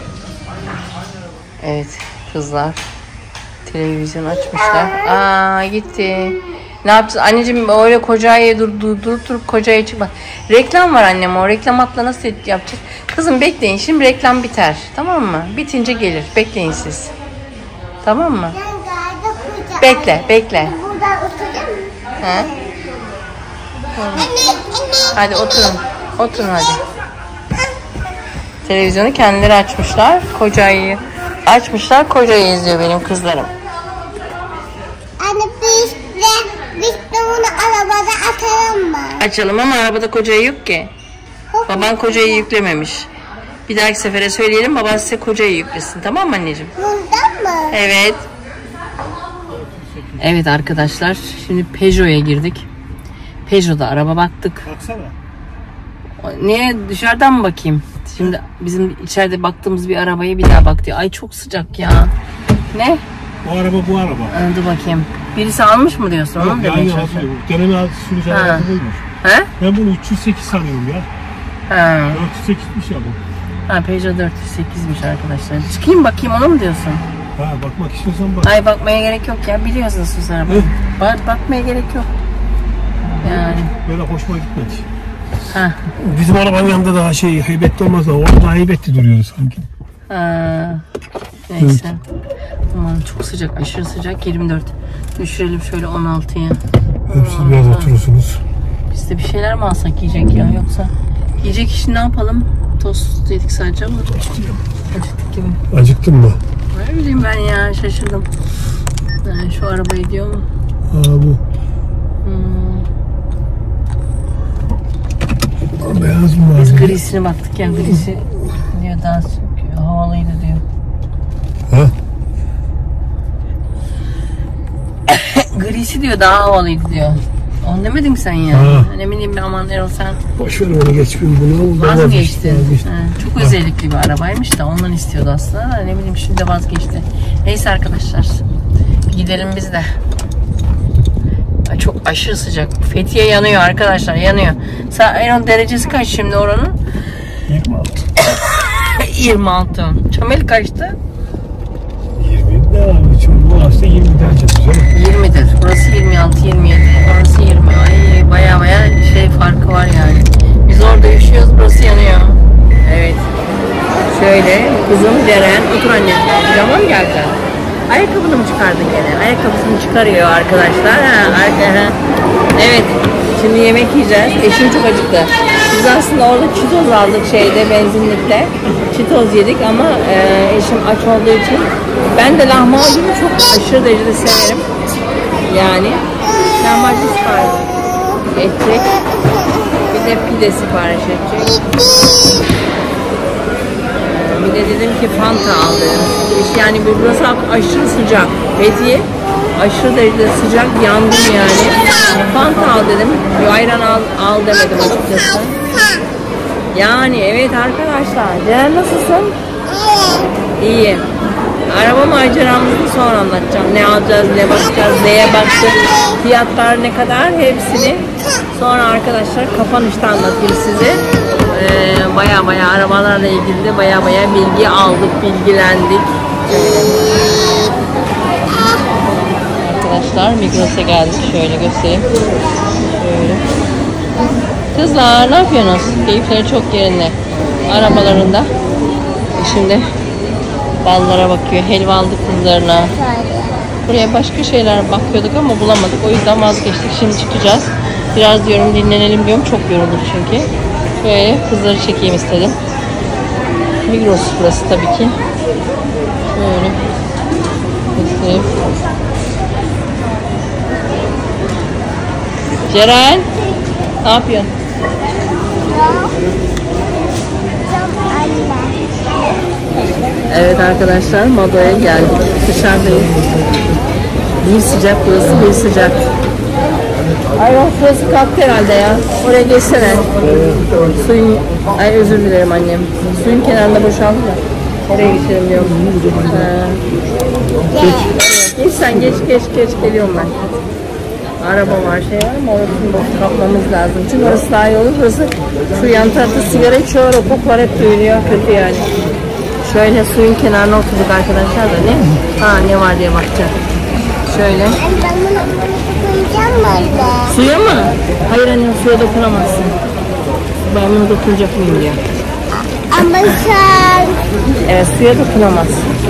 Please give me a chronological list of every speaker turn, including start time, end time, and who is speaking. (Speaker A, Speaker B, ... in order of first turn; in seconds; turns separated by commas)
Speaker A: 1.6-2.8, Speaker A: 3.6-17.1, Speaker A: 18.0-18.6, Speaker B: 18.7-19.7, Speaker A: 19.7-20.8, Speaker B: 20.8-21.9, Speaker A: 22.2-22.6, Speaker A: 23.9-24.3, Speaker A: 25.1-26.8, Speaker A: 28.6-33.5, Speaker B: 35.2-39.1, Speaker A: 39.1-40.9, Speaker A: 41.6-43.1, Speaker A: 43.7-46.8, Speaker B: 46.8-47.7, Speaker A: 47.6-48.3, Speaker C: 49.5-50.3, Speaker A: 50.2-52.7, Speaker A: 53.5-54.7, Speaker C: 54.6-55.2, Speaker A: 56.2-62.1, Speaker A: 62.7-63.0, Speaker C: 63.4-64.3, Speaker A: 64.3-67.3, Speaker C: 66.3-69.0, Speaker A: 68.3-68.7, Speaker A: 69.2-69.5, Speaker C: 69.6-71.1, Speaker A: 71.7-72.2, Speaker C: 72.1-73.2, Speaker A: 73.7-77.0, Speaker C: 77.3-78.5, Speaker A: 78.4-82.1, Speaker A: 83.2-83.7, Speaker C: 83.2-84.9, Speaker A: 85.5-85.9, Speaker C: 85.9-89.7, Speaker A: 90.1-90.8, Speaker A: 91.5-92.0, Speaker C: 91.6-91.9, Speaker A: 92.7-98.0, Speaker C: 97.1-98.4, Speaker A: 98.9-104.3, Speaker C: 104.2-104.6, Speaker A: 104.9-105.6, Speaker C: 105.7-106.4, Speaker A: 106.7-108.3, Speaker A: 109.2-110.5, Speaker C: 110.9-111.4, Speaker A: 112.2-112.9, Speaker C: 115.8-117.0, Speaker A: 116.5-120.6, Speaker C: 121.7-122.0, Speaker A: 125.1-130.2, Speaker C: 128.5-128.9, Speaker C: 130.3-133.5, Speaker A: 131.7-138.4, Speaker A: 139.1-139.9, Speaker A: 141.7-146.8, Speaker C: 147.4-148.1, Speaker A: 148.2-151.0, Speaker C: 152.2-154.9, Speaker A: 154.9-163.3, Speaker A: 164.0-172.0, Speaker A: 172.5-184.7, Speaker A: 185.4-187.7, Speaker A: 188.3-189.0, Speaker A: 189.9-191.7, Speaker A: 194.0-205.6, Speaker A: 206.7-209.4, Speaker A: 210.6-211.1, Speaker A: 211.7-227.4, Speaker A: 229.4-232.1, Speaker A: 232.9-233.4, Speaker A: 234.7-238.5, Speaker A: 239.3-239.8, Speaker A: 240.8-243.1, Speaker B: 243.2-243.5, Speaker A: 243.8-252.6, Speaker A: 253.8-255.2, Speaker A: 256.3-256.8, Speaker A: 257.9-258.5, Speaker A: 262.7-263.3, Speaker A: 264.0-264.5, Speaker B: 265.7-266.2, Speaker B: 267.8-268.8, Speaker A: 270.3-273.2, Speaker A: 274.4-276.1, Speaker A: 277.3-280.1, Speaker A: 280.8-286.8, Speaker A: 287.8-290.4, Speaker A: 291.4-298.9, Speaker A: 299.6-303.6, Speaker A: 304.2-304.9, Speaker B: 304.9-307.2, Speaker A: 307.2-309.8, Speaker A: 310.6-312.0, Speaker B: 312.9-314.2, Speaker A: 314.6-315.9